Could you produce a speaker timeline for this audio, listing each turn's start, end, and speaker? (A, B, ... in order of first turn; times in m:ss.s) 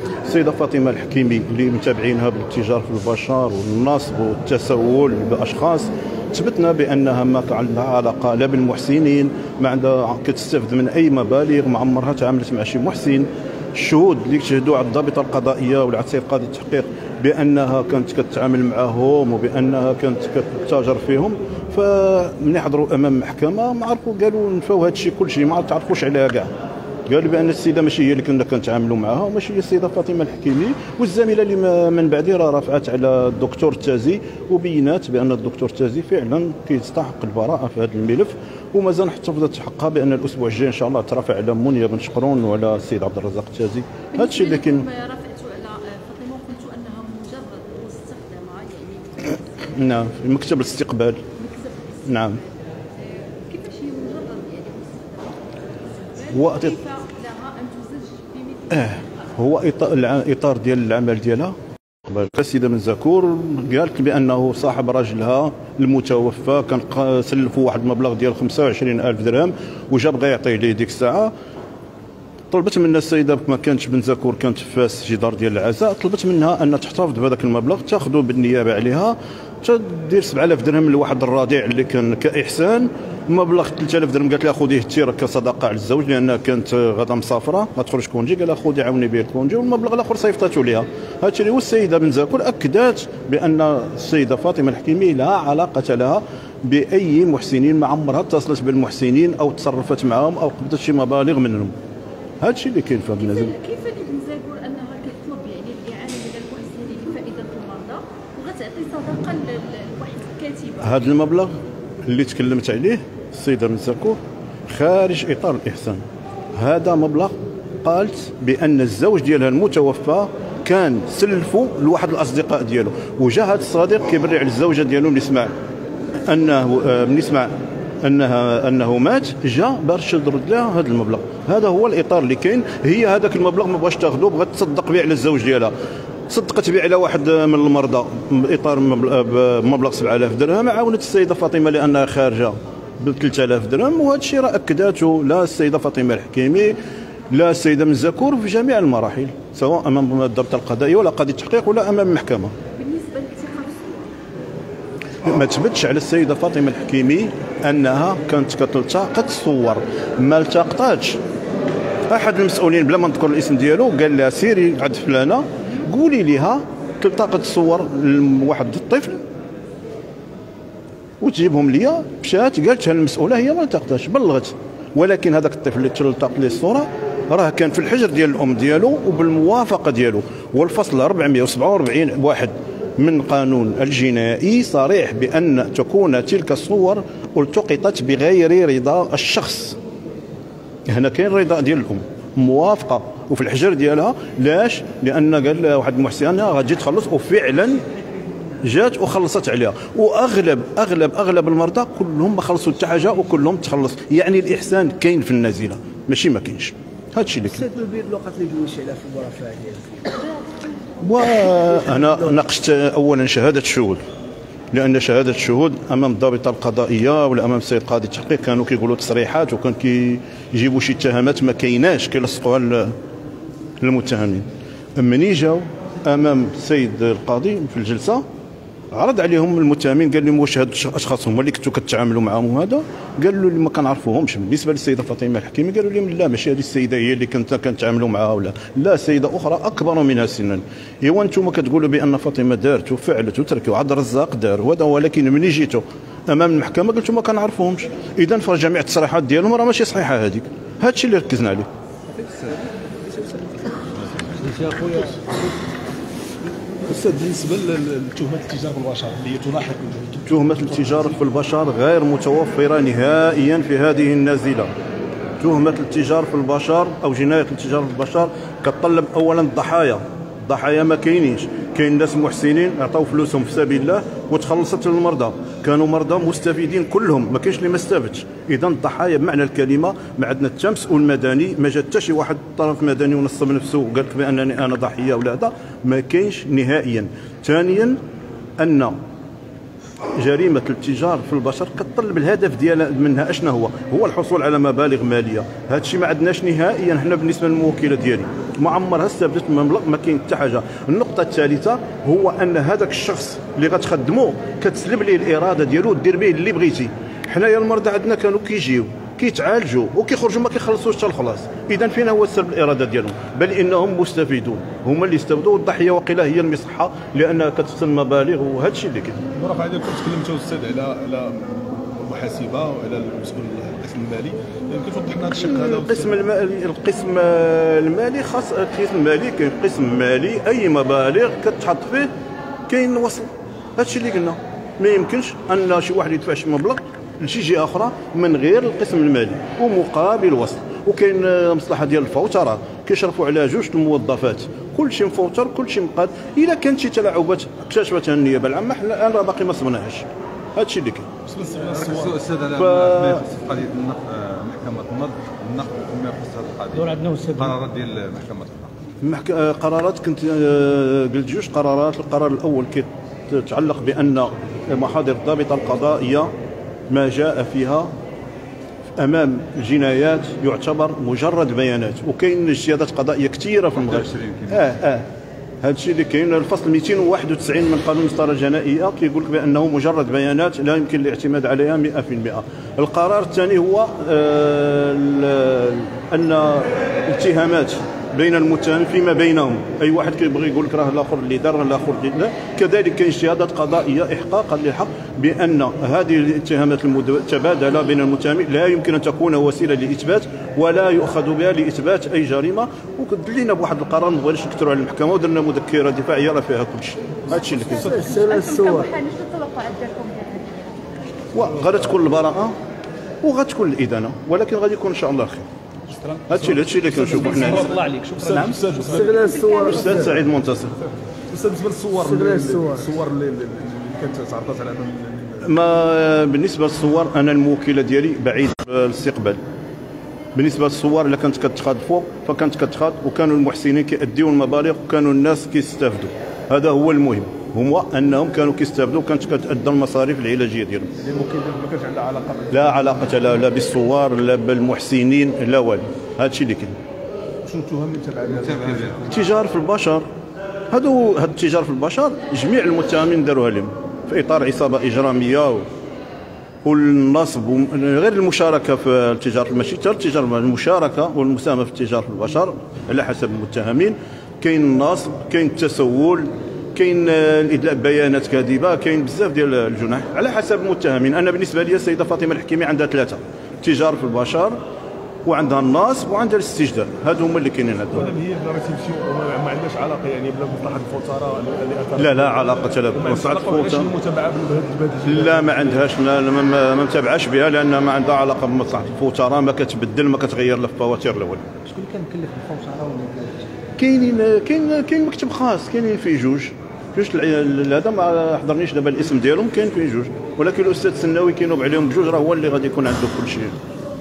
0:00.2-0:26.5 A
0:27.1-0:44.9 A
0:44.1-0:49.8 B
0:49.7-0:51.2 A
0:51.3-0:52.3 B
0:52.0-0:52.4 A
0:53.0-0:59.0 B
0:56.3-0:56.7 A
0:58.7-1:01.6 A
1:02.1-1:11.3 A
1:12.5-1:41.7 A
1:42.4-1:43.5 A
1:43.2-1:51.0 B
1:50.8-1:51.5 A
1:52.1-1:56.0 A
1:56.6-2:05.5 A
2:06.3-2:07.5 A
2:08.0-2:15.7 A
2:16.3-2:26.8 A
2:27.3-2:32.5 A
2:32.8-2:34.1 B
2:35.2-2:41.2 A
2:42.1-2:49.2 A
2:51.2-3:09.8 A
3:10.9-3:17.8 A
3:18.6-3:27.7 A
3:27.7-3:29.9 C
3:30.2-3:30.6 B
3:31.0-3:34.0 A
3:34.7-3:42.9 A
3:43.8-3:44.4 A
3:45.0-3:48.2 A
3:48.9-4:11.7 A
4:14.4-4:15.3 D
4:16.9-4:20.9 D
4:20.2-4:24.7 A
4:25.4-4:48.0 A
4:48.6-4:49.0 A
4:50.2-5:19.2 A
5:19.3-5:26.1 D
5:25.4-5:32.1 A
5:32.7-5:51.1 A
5:51.2-5:52.1 D
5:51.6-5:58.7 E
5:52.5-5:53.2 A
5:56.9-5:57.5 C
5:59.0-6:06.3 A
6:06.9-6:07.9 A
6:09.0-6:15.1 A
6:13.9-6:14.6 E
6:15.6-6:48.2 A
6:47.4-6:50.9 B
6:48.0-6:48.9 C
6:51.3-6:52.6 A
6:53.2-6:55.5 A
6:56.3-6:58.6 A
6:56.8-6:59.3 D
6:57.8-6:58.1 C
6:58.9-6:59.7 C
6:59.0-7:00.0 B
6:59.5-7:00.8 A
7:01.2-7:05.5 D
7:02.2-7:02.8 C
7:05.4-7:09.4 A
7:10.4-7:20.9 A
7:21.0-7:23.1 D
7:22.5-7:26.8 A
7:27.4-7:29.3 D
7:28.4-7:29.0 E
7:29.1-7:30.1 A
7:30.7-7:35.7 A
7:36.6-7:54.6 A
7:55.2-7:58.1 A
7:57.9-8:05.8 D
8:02.0-8:03.9 A
8:05.1-8:11.4 A
8:11.6-8:13.5 C
8:13.8-8:23.6 A